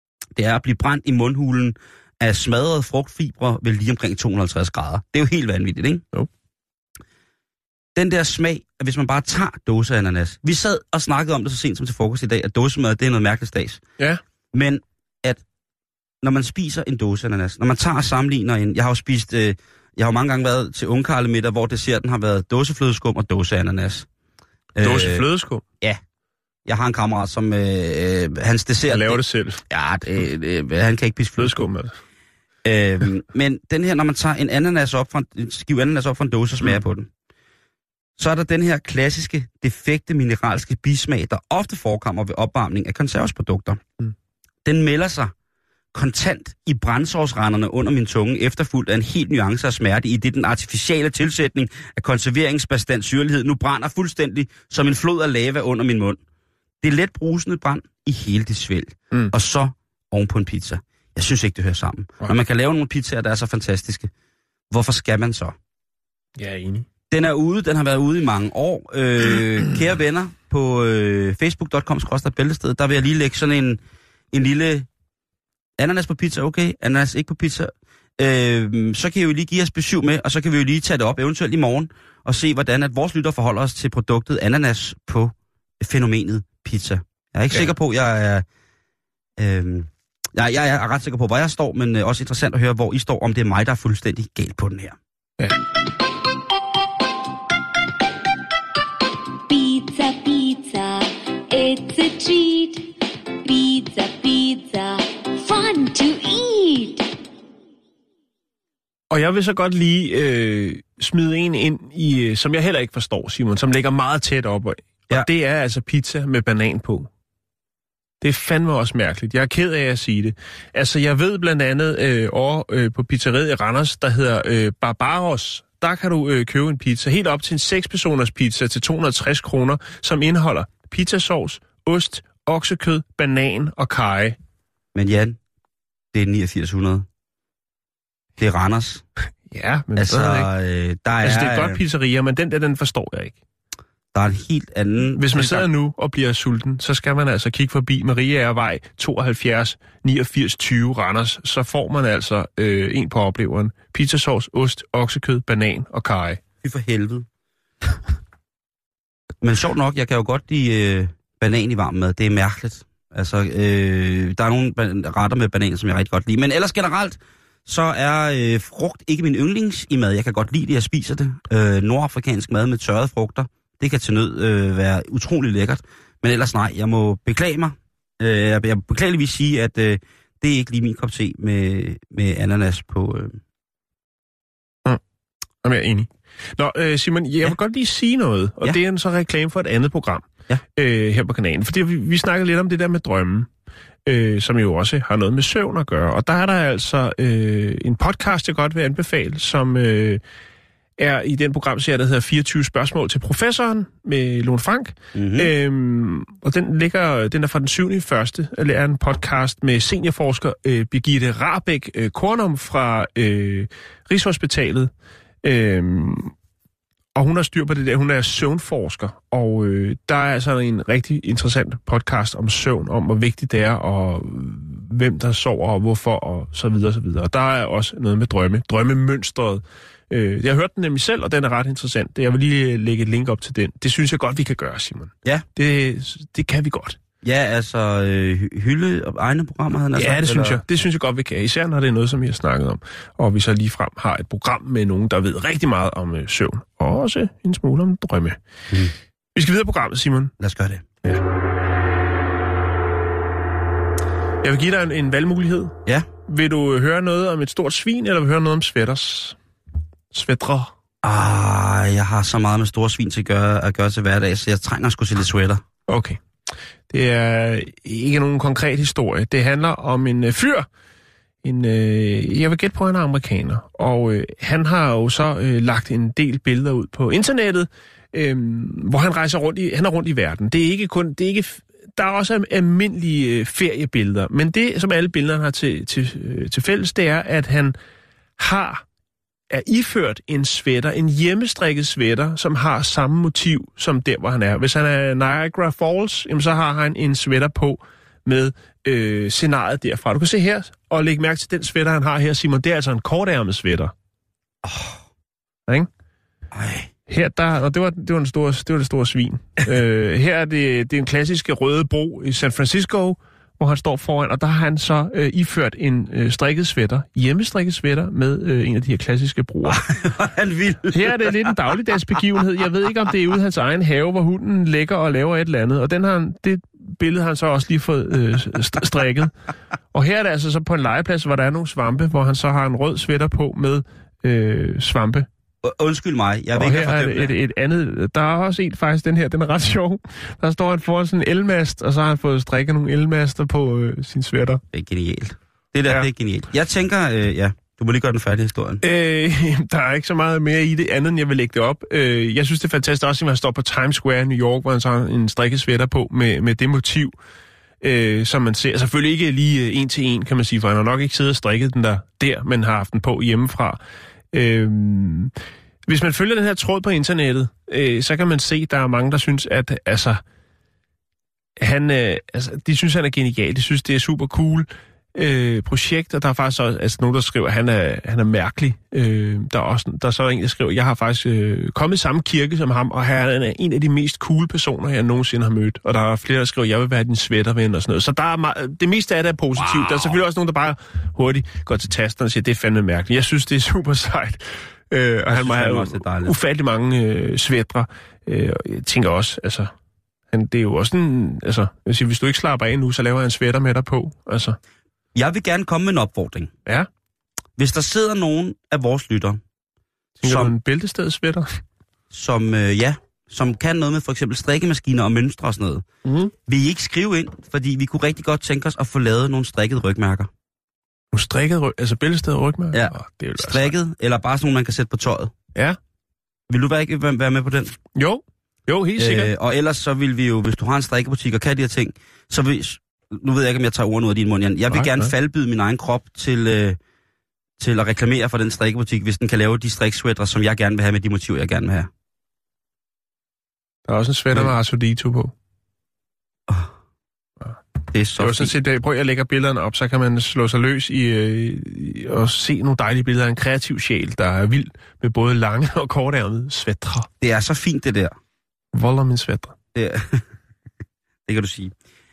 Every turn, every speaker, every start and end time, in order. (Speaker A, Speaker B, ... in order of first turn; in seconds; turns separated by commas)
Speaker A: 0.4-6.0, Speaker A: 8.0-13.8, Speaker A: 14.5-15.4, Speaker A: 16.2-24.1, Speaker A: 24.8-25.2, Speaker B: 24.8-25.6, Speaker A: 26.7-31.6, Speaker B: 28.9-29.6, Speaker B: 31.4-31.9, Speaker A: 32.6-37.1, Speaker A: 38.2-43.8, Speaker A: 44.6-45.3, Speaker A: 45.9-56.2, Speaker A: 56.8-64.1, Speaker A: 64.7-65.5, Speaker B: 66.4-66.9, Speaker A: 67.1-73.8, Speaker A: 74.3-74.9, Speaker A: 75.8-88.5, Speaker A: 89.4-95.0, Speaker C: 99.5-107.1, Speaker B: 109.1-117.1, Speaker B: 118.2-134.4, Speaker A: 134.9-135.4, Speaker A: 136.1-137.1, Speaker A: 138.4-139.0, Speaker B: 139.5-140.5, Speaker A: 140.0-141.8, Speaker B: 141.2-143.4, Speaker A: 144.1-145.7, Speaker B: 145.2-156.4, Speaker A: 156.6-157.3, Speaker A: 159.4-183.4, Speaker B: 185.6-193.5, Speaker B: 194.1-200.2, Speaker B: 201.0-214.9, Speaker A: 205.1-205.5, Speaker B: 215.4-216.3, Speaker B: 217.2-237.0, Speaker A: 237.2-240.6, Speaker B: 240.0-248.4, Speaker B: 249.3-250.3, Speaker A: 250.4-250.8, Speaker B: 254.4-255.7, Speaker B: 256.3-259.4, Speaker B: 260.1-260.7, Speaker A: 261.0-265.6, Speaker B: 265.9-266.2, Speaker B: 266.9-270.7, Speaker B: 271.4-287.8, Speaker B: 288.4-288.8, Speaker B: 289.5-303.9, Speaker A: 304.6-305.0, Speaker A: 306.5-306.9, Speaker B: 307.1-319.8, Speaker A: 319.7-321.4, Speaker B: 320.9-329.3, Speaker B: 329.9-335.3, Speaker A: 335.6-337.3, Speaker B: 336.6-344.6, Speaker A: 344.7-348.8, Speaker B: 348.8-357.1, Speaker B: 357.8-363.8, Speaker B: 364.3-365.3, Speaker B: 365.9-370.2, Speaker B: 371.6-399.7, Speaker A: 389.6-390.2, Speaker A: 395.3-396.4, Speaker B: 400.3-404.6, Speaker A: 405.1-406.5, Speaker A: 407.6-409.4, Speaker B: 410.2-411.6, Speaker A: 410.2-410.6, Speaker A: 412.1-415.9, Speaker B: 416.1-416.3, Speaker A: 416.5-420.3, Speaker B: 421.1-423.7, Speaker A: 422.7-425.3, Speaker A: 426.5-427.8, Speaker B: 428.0-429.3, Speaker A: 429.0-436.8, Speaker B: 434.7-435.1, Speaker A: 437.6-441.9, Speaker B: 443.9-445.3, Speaker A: 447.9-448.5, Speaker B: 448.2-457.1, Speaker A: 457.2-458.2, Speaker B: 458.7-459.6, Speaker A: 459.7-460.3, Speaker A: 461.3-461.7